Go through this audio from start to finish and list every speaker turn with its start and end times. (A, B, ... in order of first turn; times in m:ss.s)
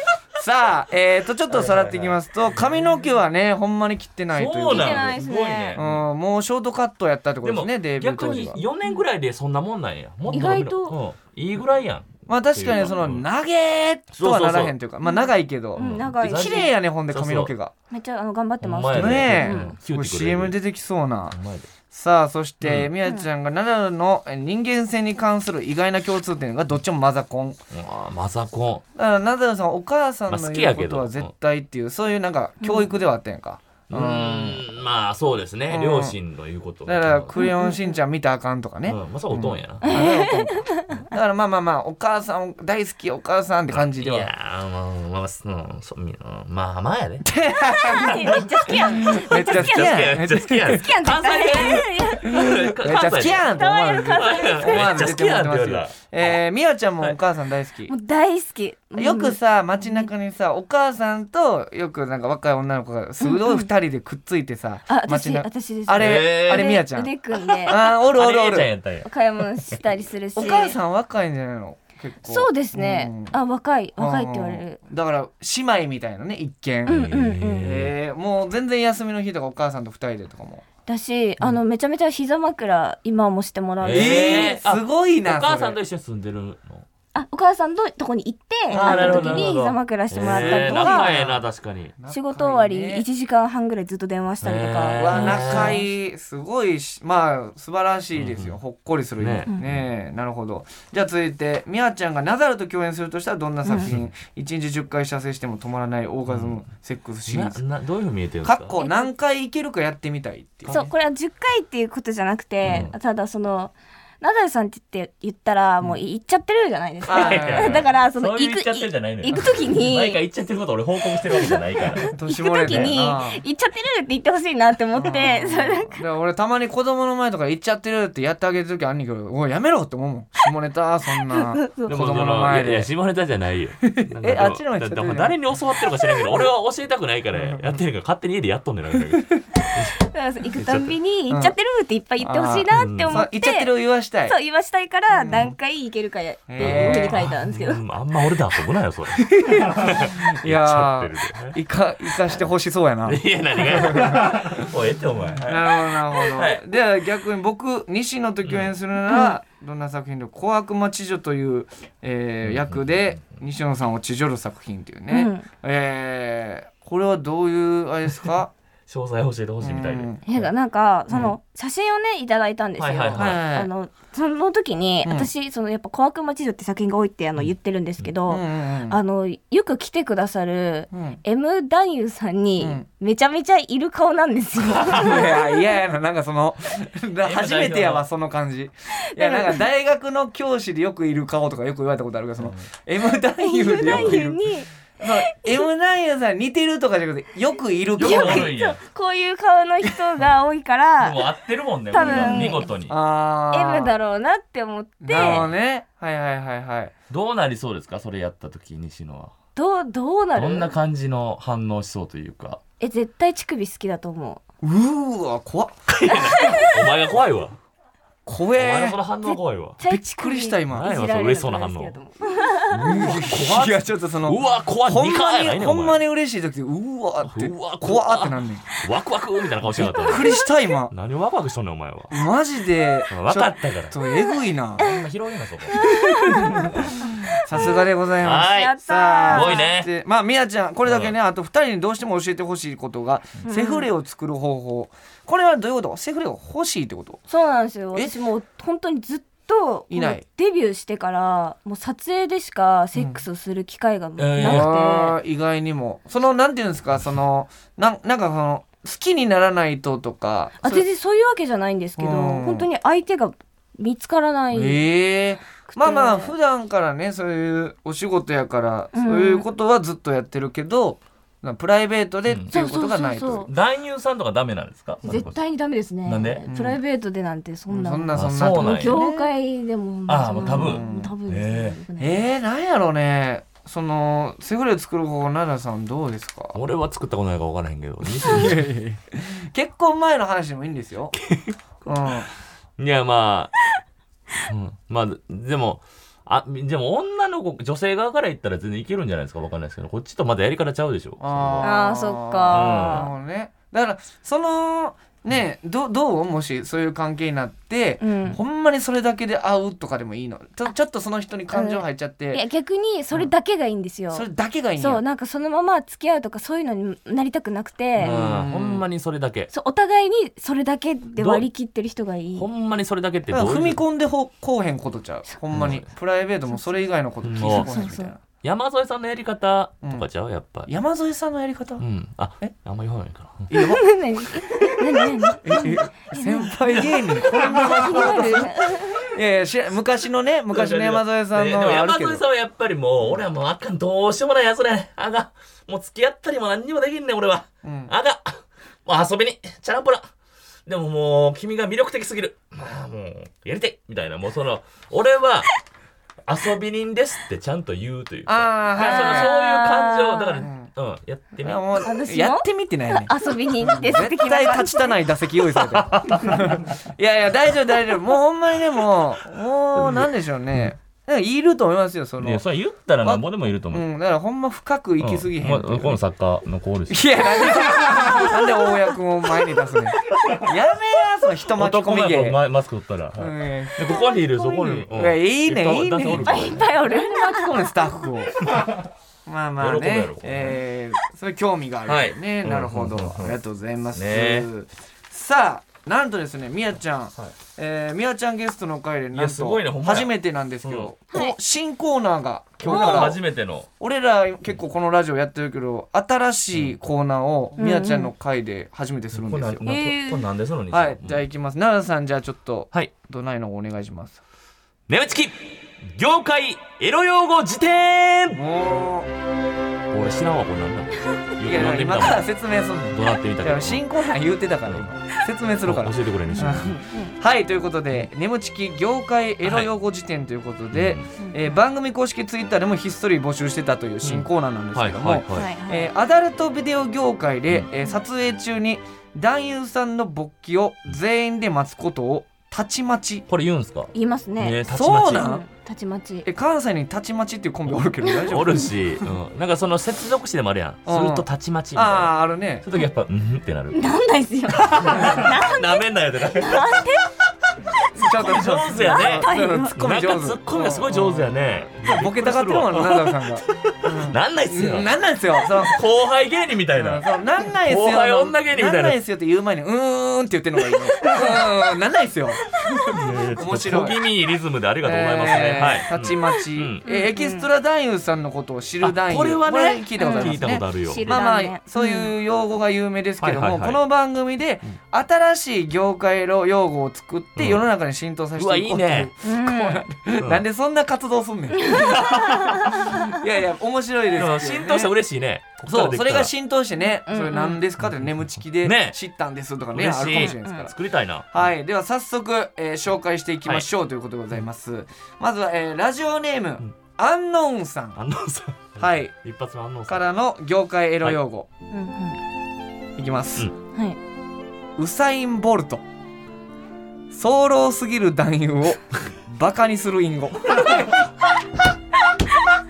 0:00.3-0:05.1 A
0:01.5-0:02.8 B
0:04.3-0:06.0 B
0:04.6-0:05.8 C
0:05.7-0:08.6 A
0:07.4-0:13.2 B
0:10.3-0:11.0 C
0:12.3-0:17.7 A
0:14.1-0:14.8 B
0:15.0-0:16.7 C
0:15.8-0:17.5 B
0:17.9-0:19.7 C
0:18.6-0:20.6 B
0:18.9-0:21.4 A
0:21.3-0:21.7 B
0:21.9-0:27.6 A
0:22.6-0:22.9 B
0:27.7-0:28.8 B
0:29.0-0:34.6 A
0:30.3-0:31.3 B
0:32.6-0:32.9 C
0:33.9-0:37.3 B
0:35.7-0:36.2 A
0:36.8-0:44.3 A
0:37.4-0:37.9 C
0:38.8-0:39.8 B
0:39.8-0:41.0 C
0:43.7-0:47.2 B
0:47.2-0:50.8 A
0:47.8-0:52.5 C
0:49.2-0:53.5 B
0:52.2-0:57.9 A
0:53.3-0:54.9 C
0:54.1-0:56.4 B
0:57.9-1:00.1 C
0:59.0-1:07.1 A
1:03.2-1:03.7 C
1:04.9-1:07.8 C
1:06.0-1:06.8 B
1:07.6-1:08.7 A
1:07.7-1:09.1 B
1:09.0-1:10.8 C
1:10.4-1:13.3 A
1:12.2-1:14.8 C
1:14.0-1:17.0 A
1:16.8-1:17.9 B
1:16.9-1:17.7 C
1:17.6-1:20.6 A
1:20.8-1:24.5 C
1:23.8-1:26.8 B
1:23.8-1:25.8 A
1:27.1-1:31.1 C
1:28.7-1:31.9 B
1:28.7-1:29.5 A
1:30.2-1:31.4 A
1:32.0-1:33.0 A
1:32.1-1:35.8 C
1:34.4-1:35.8 B
1:35.0-1:47.6 A
1:38.1-1:38.6 B
1:39.2-1:39.8 B
1:46.3-1:46.6 B
1:47.3-1:48.8 B
1:48.4-1:50.8 A
1:48.8-1:49.1 C
1:50.7-2:00.2 C
1:52.6-1:52.9 B
1:57.0-1:57.8 A
1:57.1-2:02.1 B
1:59.3-1:59.6 A
2:01.3-2:06.0 C
2:02.1-2:03.4 A
2:02.6-2:03.0 B
2:04.9-2:12.9 A
2:11.1-2:11.9 C
2:11.9-2:20.0 B
2:13.8-2:15.4 A
2:17.3-2:17.8 A
2:20.0-2:23.7 C
2:20.6-2:20.9 B
2:21.3-2:21.5 A
2:22.2-2:24.4 A
2:22.7-2:23.2 B
2:24.3-2:27.8 C
2:25.1-2:25.5 A
2:26.5-2:27.2 A
2:26.6-2:31.6 B
2:29.2-2:34.7 A
2:33.0-2:36.6 B
2:35.4-2:48.5 A
2:38.4-2:38.7 B
2:39.1-2:39.3 C
2:42.4-2:42.8 B
2:45.1-2:45.4 C
2:48.9-2:50.5 B
2:49.6-2:50.2 A
2:50.2-3:05.4 C
2:52.8-2:53.4 B
2:53.1-2:53.7 A
2:55.0-2:55.3 A
2:58.3-2:59.0 A
3:00.9-3:01.2 A
3:02.6-3:02.8 A
3:04.8-3:05.1 B
3:04.8-3:14.4 A
3:07.2-3:08.0 B
3:09.1-3:09.6 C
3:13.4-3:14.7 C
3:13.8-3:14.2 B
3:15.0-3:18.5 A
3:15.3-3:15.6 C
3:18.0-3:18.8 B
3:18.0-3:21.3 C
3:21.0-3:22.9 B
3:21.9-3:22.6 C
3:22.0-3:23.9 A
3:23.5-3:25.5 C
3:25.0-3:26.9 A
3:25.2-3:25.5 B
3:27.1-3:29.3 B
3:29.5-3:30.7 C
3:30.3-3:32.6 B
3:32.8-3:34.4 C
3:34.6-3:36.0 A
3:35.9-3:37.6 B
3:36.1-3:36.8 C
3:38.2-3:39.0 A
3:38.6-3:39.8 B
3:39.2-3:43.1 C
3:39.8-3:40.9 A
3:40.7-3:42.0 B
3:42.7-3:46.0 B
3:42.8-3:48.6 A
3:47.2-3:50.3 B
3:49.6-3:50.9 A
3:49.8-3:50.4 C
3:50.9-3:52.1 B
3:52.1-3:54.8 A
3:53.1-3:53.9 B
3:54.8-3:58.8 B
3:55.7-3:57.7 C
3:57.4-4:07.2 A
3:58.4-3:59.7 C
3:59.3-3:59.9 B
4:00.8-4:01.1 B
4:03.4-4:03.9 C
4:07.3-4:15.2 C
4:09.9-4:10.2 A
4:12.9-4:13.2 A
4:14.2-4:14.7 B
4:14.4-4:20.8 A
4:20.6-4:24.8 C
4:22.0-4:22.7 A
4:24.5-4:33.5 A
4:25.7-4:26.3 C
4:28.9-4:29.4 C
4:32.3-4:32.5 B
4:32.5-4:33.5 C
4:33.5-4:35.4 B
4:35.0-4:42.2 C
4:36.0-4:36.4 B
4:36.5-4:36.8 A
4:37.7-4:39.3 A
4:38.1-4:39.0 B
4:40.1-4:41.8 B
4:40.4-4:41.1 A
4:42.0-4:46.6 A
4:46.5-4:48.7 B
4:48.2-4:51.2 A
4:51.2-4:52.2 B
4:51.8-4:52.3 A
4:52.8-4:53.5 B
4:54.4-5:01.7 B
5:01.2-5:12.4 A
5:01.6-5:03.1 C
5:02.5-5:03.1 B
5:08.0-5:08.4 C
5:11.5-5:14.2 C
5:14.1-5:15.0 A
5:14.8-5:18.2 C
5:18.0-5:18.8 A
5:18.0-5:19.5 B
5:19.5-5:22.5 C
5:21.2-5:21.5 B
5:22.3-5:23.8 B
5:23.3-5:28.2 A
5:25.5-5:25.8 B
5:27.2-5:27.7 B
5:27.4-5:28.1 C
5:28.4-5:30.7 B
5:30.7-5:31.8 A
5:31.8-5:33.5 B
5:33.5-5:33.8 A
5:33.5-5:39.1 C
5:35.4-5:42.2 A
5:40.5-5:50.1 B
5:47.6-5:47.9 A
5:50.6-5:55.5 B
5:56.2-6:01.6 B
5:58.3-5:59.3 A
5:58.8-6:00.5 C
6:00.4-6:00.7 A
6:01.4-6:12.4 A
6:01.8-6:05.0 C
6:05.6-6:06.6 B
6:09.8-6:10.7 B
6:12.2-6:13.8 B
6:13.0-6:16.0 A
6:15.0-6:17.1 B
6:16.9-6:22.4 A
6:20.2-6:20.5 B
6:21.5-6:26.7 B
6:23.2-6:28.4 A
6:26.1-6:27.7 C
6:28.5-6:28.8 B
6:29.2-6:43.2 A
6:29.6-6:30.6 B
6:31.8-6:33.4 B
6:33.9-6:34.5 B
6:39.1-6:40.1 B
6:40.6-6:40.9 B
6:42.6-6:43.7 B
6:42.7-6:43.1 C
6:43.8-6:49.6 A
6:47.6-6:48.1 C
6:49.1-6:51.2 B
6:49.6-6:50.2 C
6:50.7-6:54.2 A
6:54.9-6:58.4 B
6:58.3-6:59.1 A
6:59.9-7:02.2 B
7:01.4-7:23.2 A
7:02.9-7:03.8 B
7:05.6-7:06.7 B
7:06.3-7:07.2 C
7:09.4-7:09.7 B
7:10.7-7:11.1 B
7:11.2-7:11.6 C
7:14.0-7:15.5 B
7:15.3-7:15.9 C
7:23.3-7:25.3 B
7:23.9-7:26.3 C
7:24.7-7:25.4 A
7:26.2-7:29.1 A
7:28.2-7:33.8 B
7:30.8-7:32.6 A
7:33.7-7:35.8 C
7:34.5-7:36.8 B
7:36.4-7:37.1 C
7:37.9-7:47.1 B
7:37.9-7:45.8 A
7:38.8-7:39.7 C
7:46.7-7:54.0 A
7:47.6-7:49.0 B
7:52.9-7:56.8 B
7:54.8-8:12.0 A
7:56.8-7:57.5 C
7:58.8-8:01.2 B
8:00.0-8:02.1 C
8:03.2-8:03.8 B
8:07.4-8:07.6 B
8:08.4-8:09.1 B
8:09.2-8:09.8 C
8:10.2-8:10.4 B
8:11.6-8:13.0 C
8:11.7-8:12.9 B
8:13.0-8:14.9 A
8:14.1-8:16.3 B
8:15.6-8:20.8 A
8:17.0-8:17.6 C
8:18.6-8:19.0 B
8:19.7-8:21.5 B
8:20.1-8:20.6 C
8:21.3-8:28.0 A
8:28.0-8:30.0 B
8:28.8-8:29.1 A
8:29.9-8:31.5 A
8:31.7-8:32.2 C
8:33.0-8:33.5 A
8:34.8-8:35.8 A
8:37.1-8:41.1 A